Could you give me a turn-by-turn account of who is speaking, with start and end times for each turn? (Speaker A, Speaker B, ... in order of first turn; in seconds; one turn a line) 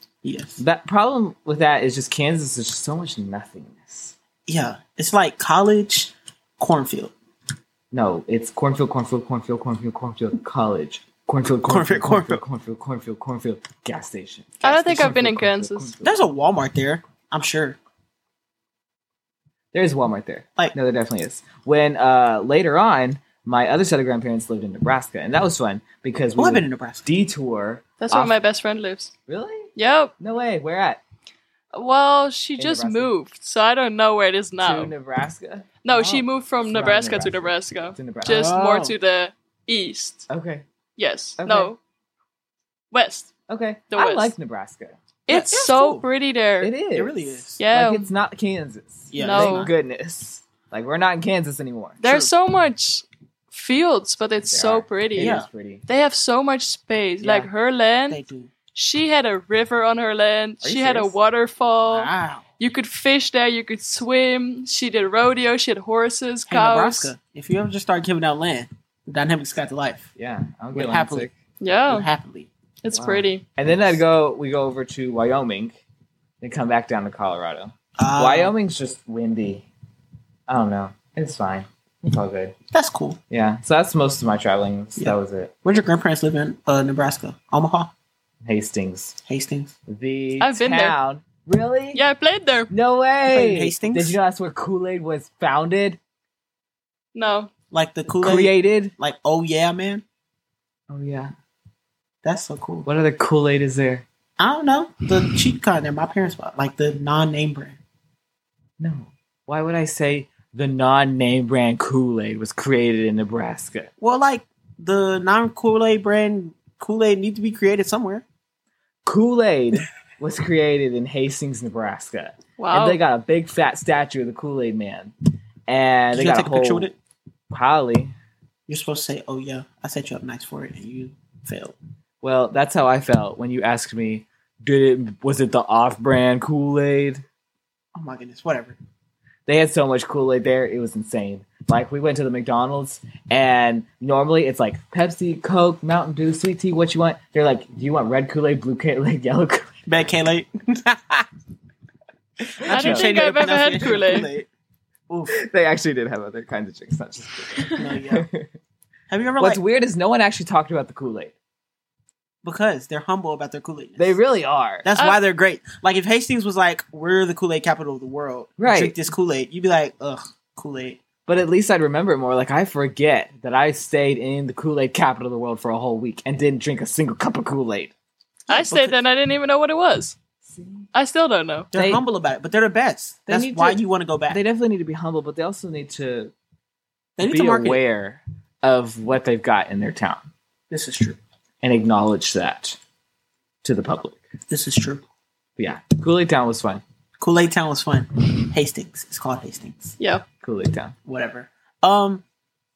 Speaker A: 0.2-0.6
Speaker B: 0.6-4.2
Speaker A: 4.5-7.1
Speaker B: 7.9-16.2
Speaker A: 11.7-12.4
Speaker A: 14.6-15.2
Speaker C: 14.6-15.9
Speaker A: 16.0-17.8
Speaker B: 19.7-28.4
Speaker A: 26.4-27.1
Speaker C: 28.0-29.1
Speaker B: 29.3-31.0
Speaker C: 29.8-30.1
Speaker C: 31.7-34.9
Speaker B: 32.6-33.1
Speaker B: 34.6-38.5
Speaker C: 35.8-40.3
Speaker A: 38.3-39.0
Speaker B: 40.3-40.6
Speaker C: 41.0-41.8
Speaker B: 41.4-41.7
Speaker C: 42.9-43.3
Speaker B: 43.5-45.0
Speaker C: 43.9-44.3
Speaker C: 45.3-46.7
Speaker A: 45.3-46.0
Speaker B: 46.6-52.0
Speaker A: 47.0-47.6
Speaker C: 47.6-48.1
Speaker A: 49.1-49.7
Speaker C: 49.2-49.7
Speaker C: 52.0-58.2
Speaker A: 52.0-52.3
Speaker B: 54.5-55.9
Speaker A: 55.2-55.5
Speaker B: 57.2-57.5
Speaker A: 58.1-58.5
Speaker C: 58.7-67.1
Speaker B: 60.6-61.1
Speaker A: 61.8-62.4
Speaker A: 66.5-70.1
Speaker B: 70.2-71.3
Speaker A: 70.7-71.3
Speaker C: 71.6-72.1
Speaker A: 71.9-72.5
Speaker C: 72.8-73.4
Speaker B: 72.9-75.8
Speaker B: 76.4-79.7
Speaker A: 78.0-78.5
Speaker B: 80.5-82.5
Speaker A: 82.7-83.2
Speaker B: 83.3-85.5
Speaker A: 85.0-87.9
Speaker B: 88.4-89.2
Speaker A: 89.3-89.7
Speaker B: 89.9-92.0
Speaker C: 90.4-91.0
Speaker C: 91.9-92.7
Speaker B: 92.7-96.0
Speaker A: 93.3-94.2
Speaker C: 97.2-97.5
Speaker A: 97.7-100.0
Speaker B: 98.2-98.9
Speaker B: 100.9-101.3
Speaker A: 102.2-102.9
Speaker B: 102.9-104.0
Speaker A: 104.4-107.8
Speaker B: 108.8-113.9
Speaker A: 114.0-118.2
Speaker B: 119.1-125.1
Speaker C: 122.6-123.0
Speaker B: 125.7-126.9
Speaker A: 126.1-126.9
Speaker B: 127.5-128.1
Speaker A: 128.7-131.8
Speaker B: 132.2-137.2
Speaker A: 137.9-138.8
Speaker B: 139.5-149.8
Speaker A: 149.9-151.3
Speaker A: 152.6-154.5
Speaker B: 152.6-153.9
Speaker C: 152.7-154.3
Speaker A: 155.1-155.3
Speaker B: 155.3-158.5
Speaker A: 157.8-158.3
Speaker A: 159.1-159.6
Speaker B: 159.4-161.3
Speaker A: 162.4-164.2
Speaker B: 164.0-164.9
Speaker A: 164.8-171.0
Speaker B: 168.6-169.0
Speaker B: 171.3-177.9
Speaker A: 178.5-179.0
Speaker C: 178.5-180.2
Speaker B: 180.4-180.9
Speaker C: 180.9-181.7
Speaker A: 181.7-184.4
Speaker B: 181.7-182.0
Speaker B: 183.3-186.3
Speaker A: 187.2-187.8
Speaker B: 187.2-190.2
Speaker A: 190.7-191.2
Speaker B: 191.6-192.8
Speaker B: 193.6-194.2
Speaker A: 194.5-195.0
Speaker B: 195.6-196.8
Speaker A: 197.2-199.9
Speaker C: 200.0-200.3
Speaker B: 200.4-200.9
Speaker A: 201.1-202.2